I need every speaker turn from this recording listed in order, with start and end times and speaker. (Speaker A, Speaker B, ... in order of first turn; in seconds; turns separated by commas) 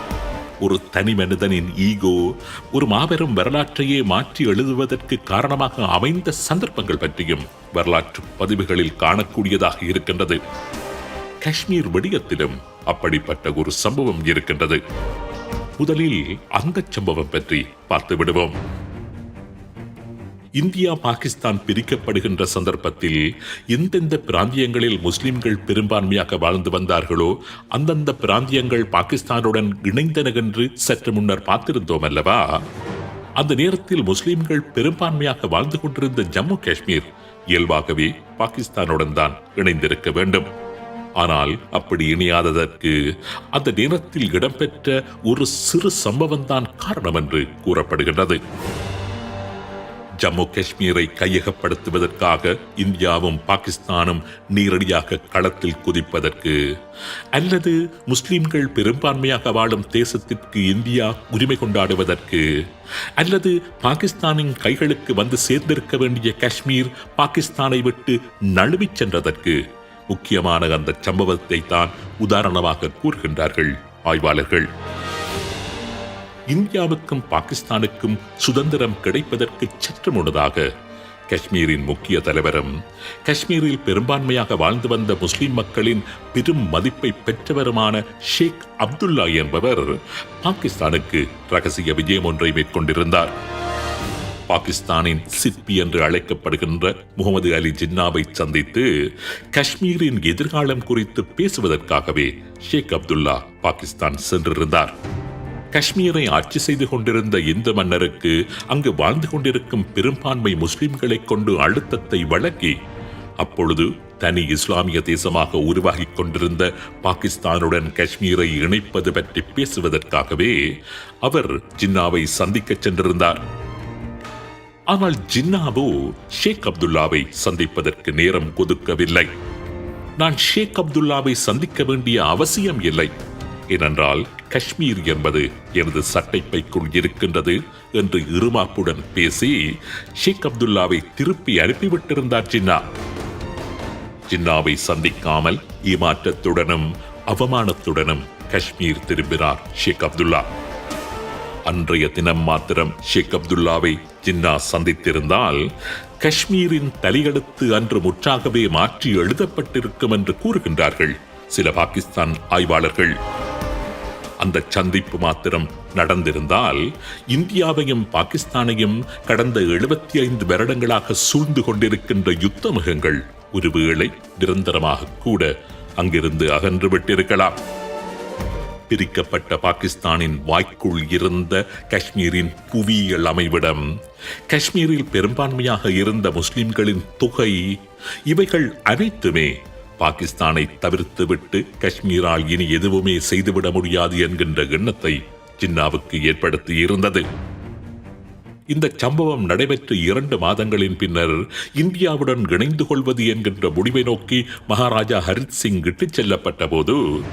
Speaker A: 0.6-10.4, Speaker A: 11.4-14.8, Speaker A: 15.8-18.6, Speaker A: 20.6-32.6, Speaker A: 33.4-40.5, Speaker A: 41.2-43.0, Speaker A: 43.5-48.4, Speaker A: 50.2-56.6, Speaker A: 57.3-62.5, Speaker A: 63.2-74.7, Speaker A: 76.5-80.7, Speaker A: 81.3-82.7, Speaker A: 83.2-93.3, Speaker A: 94.5-104.9, Speaker A: 105.7-112.8, Speaker A: 113.4-120.6, Speaker A: 121.2-123.4, Speaker A: 124.9-129.3, Speaker A: 130.2-133.1, Speaker A: 133.7-142.8, Speaker A: 144.3-150.5, Speaker A: 151.7-163.2, Speaker A: 164.4-177.6, Speaker A: 178.9-183.9, Speaker A: 184.5-197.2, Speaker A: 198.7-207.0